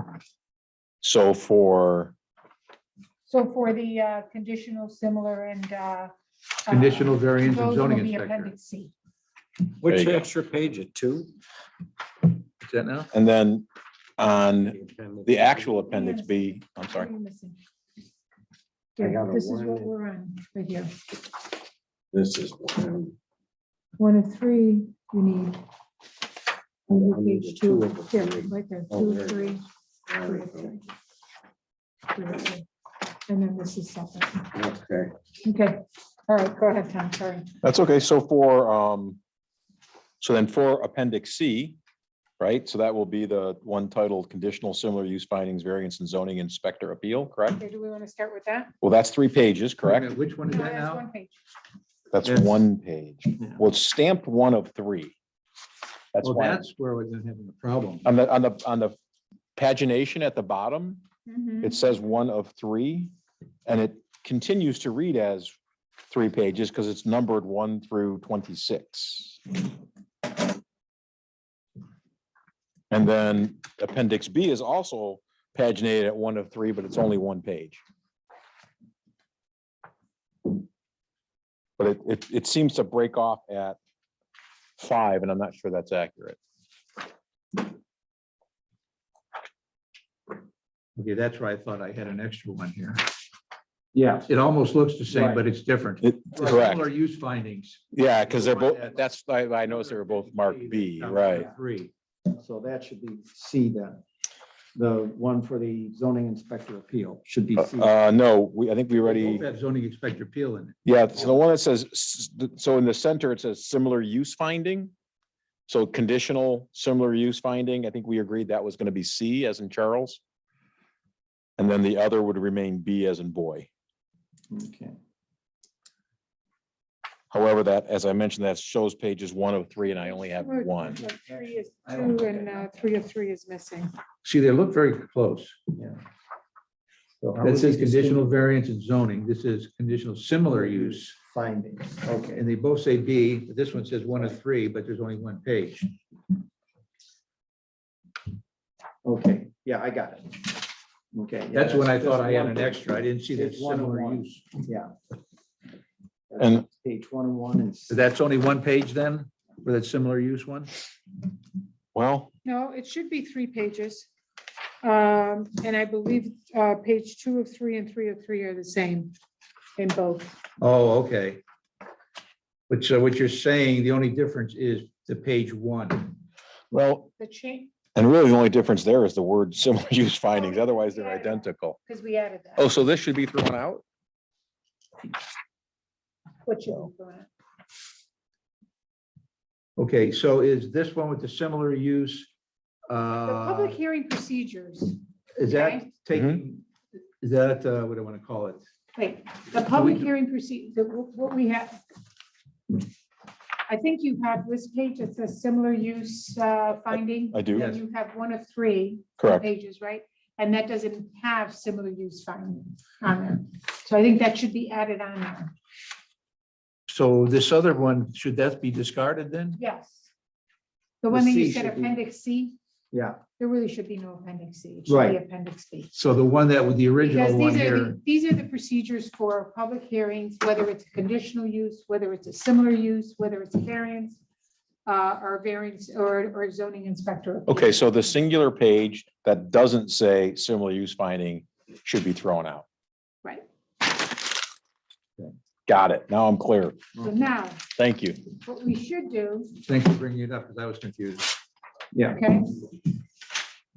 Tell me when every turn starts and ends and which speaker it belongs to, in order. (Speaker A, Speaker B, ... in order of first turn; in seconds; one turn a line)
Speaker A: 1.0-2.1
Speaker B: 3.3-6.1
Speaker B: 6.7-8.9
Speaker C: 6.7-8.5
Speaker D: 9.8-11.3
Speaker A: 9.8-10.3
Speaker C: 12.6-13.1
Speaker A: 13.1-17.1
Speaker D: 14.7-15.9
Speaker B: 15.8-17.6
Speaker B: 19.0-20.9
Speaker D: 19.0-19.9
Speaker D: 22.1-23.1
Speaker B: 24.0-25.6
Speaker B: 26.9-30.8
Speaker D: 26.9-30.7
Speaker B: 32.1-32.6
Speaker B: 33.3-34.5
Speaker D: 34.5-35.1
Speaker B: 35.4-37.5
Speaker A: 37.6-39.2
Speaker A: 40.2-41.8
Speaker A: 42.4-47.6
Speaker B: 47.6-48.7
Speaker A: 48.8-50.1
Speaker C: 49.8-51.0
Speaker B: 50.5-51.4
Speaker A: 52.1-55.1
Speaker A: 56.1-56.6
Speaker C: 56.2-58.1
Speaker A: 58.0-59.0
Speaker A: 59.5-61.0
Speaker B: 61.3-61.8
Speaker A: 61.6-63.1
Speaker A: 63.6-65.5
Speaker A: 66.1-69.6
Speaker A: 72.9-77.8
Speaker A: 81.8-83.8
Speaker A: 84.8-86.4
Speaker C: 91.0-93.0
Speaker E: 93.9-94.2
Speaker C: 94.2-101.9
Speaker E: 95.1-95.4
Speaker A: 96.0-96.8
Speaker A: 97.9-101.5
Speaker E: 102.3-104.0
Speaker E: 104.7-107.9
Speaker A: 107.5-109.4
Speaker C: 109.0-110.8
Speaker A: 110.8-114.9
Speaker A: 115.7-120.2
Speaker A: 121.6-123.7
Speaker E: 124.5-125.0
Speaker A: 127.3-131.0
Speaker B: 130.0-133.9
Speaker E: 131.3-132.2
Speaker C: 134.2-135.6
Speaker E: 137.2-138.2
Speaker C: 137.4-141.1
Speaker E: 140.5-142.4
Speaker C: 142.2-145.9
Speaker E: 149.0-150.5
Speaker E: 151.1-152.8
Speaker C: 151.5-154.4
Speaker E: 153.3-154.9
Speaker E: 156.3-157.9
Speaker A: 156.4-156.6
Speaker C: 157.9-160.7
Speaker A: 161.9-162.3
Speaker B: 162.4-164.1
Speaker B: 164.8-169.1
Speaker B: 169.8-170.4
Speaker C: 170.6-171.4
Speaker C: 172.7-176.1
Speaker A: 176.7-177.1
Speaker B: 177.2-177.7
Speaker A: 177.9-181.8
Speaker B: 180.3-182.7
Speaker A: 182.6-183.8
Speaker B: 186.4-187.3
Speaker C: 189.8-192.3
Speaker C: 192.9-193.8
Speaker B: 193.2-195.9
Speaker C: 195.3-196.7
Speaker C: 197.2-198.6
Speaker B: 198.9-201.8
Speaker C: 199.7-200.1
Speaker B: 203.7-215.5
Speaker A: 207.3-207.7
Speaker C: 207.5-207.8
Speaker A: 209.2-209.5
Speaker C: 216.9-219.6
Speaker B: 219.6-220.1
Speaker B: 221.0-222.6
Speaker C: 221.1-221.9
Speaker E: 222.9-223.2
Speaker B: 223.3-225.9
Speaker E: 224.9-225.2
Speaker C: 225.9-228.0
Speaker B: 227.0-234.2
Speaker B: 234.8-237.7
Speaker A: 237.5-242.6
Speaker A: 245.7-246.8
Speaker B: 247.0-247.6
Speaker A: 247.8-248.2
Speaker B: 248.3-249.5
Speaker C: 249.6-251.3
Speaker E: 251.9-252.2
Speaker B: 252.1-252.6